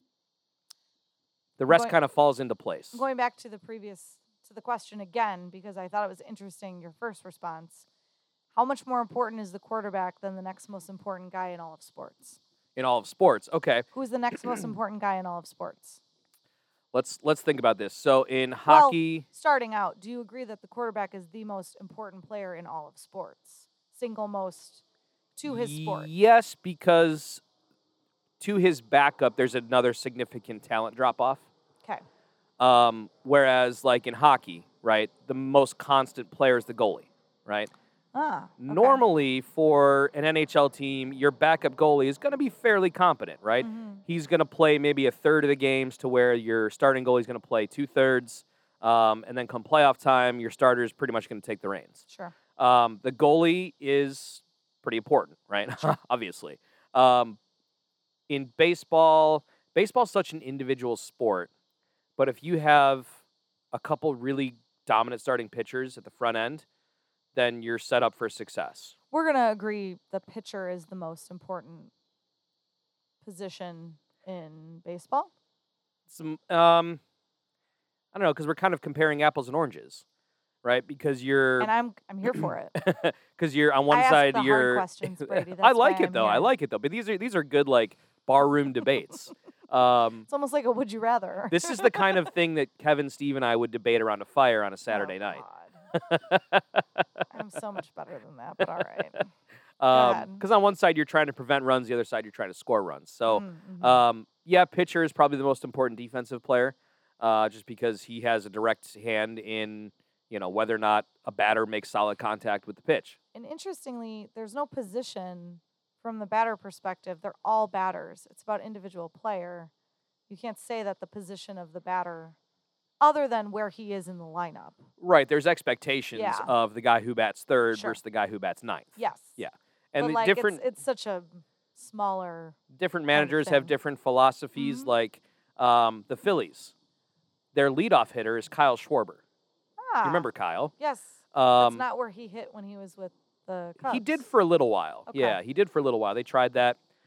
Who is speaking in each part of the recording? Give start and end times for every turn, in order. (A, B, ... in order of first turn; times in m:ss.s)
0:01.6-0:03.0 A
0:01.7-0:02.0 B
0:02.9-0:07.9 B
0:08.5-0:12.4 B
0:12.8-0:13.9 A
0:13.9-0:16.0 B
0:16.9-0:19.2 A
0:18.7-0:24.8 B
0:25.4-0:26.1 B
0:25.4-0:27.4 A
0:28.4-0:31.5 A
0:32.6-0:37.7 A
0:38.1-0:39.0 B
0:38.6-0:52.0 A
0:43.6-0:44.0 B
0:52.1-0:52.4 B
0:52.6-0:57.4 A
0:58.3-1:01.5 A
1:02.2-1:03.2 A
1:03.7-1:06.6 A
1:07.4-1:09.0 A
1:09.1-1:11.9 B
1:13.2-1:15.3 B
1:16.1-1:17.0 A
1:18.1-1:20.0 A
1:20.6-1:21.7 A
1:21.6-1:22.8 B
1:22.3-1:30.3 A
1:23.9-1:26.5 B
1:30.3-1:32.0 B
1:31.5-1:35.4 A
1:34.9-1:35.8 B
1:35.9-1:37.0 A
1:37.3-1:39.3 B
1:39.8-1:53.2 A
1:39.9-1:40.4 B
1:43.3-1:44.0 B
1:53.3-1:59.7 B
2:00.3-2:02.4 B
2:03.0-2:04.9 B
2:05.0-2:10.6 A
2:06.1-2:06.5 B
2:07.7-2:08.0 B
2:09.0-2:09.4 B
2:10.0-2:12.6 B
2:12.7-2:16.7 A
2:13.1-2:13.7 B
2:14.6-2:14.9 B
2:17.5-2:19.2 A
2:19.8-2:24.2 B
2:20.0-2:20.7 A
2:21.3-2:21.8 A
2:23.8-2:26.8 A
2:25.1-2:25.4 B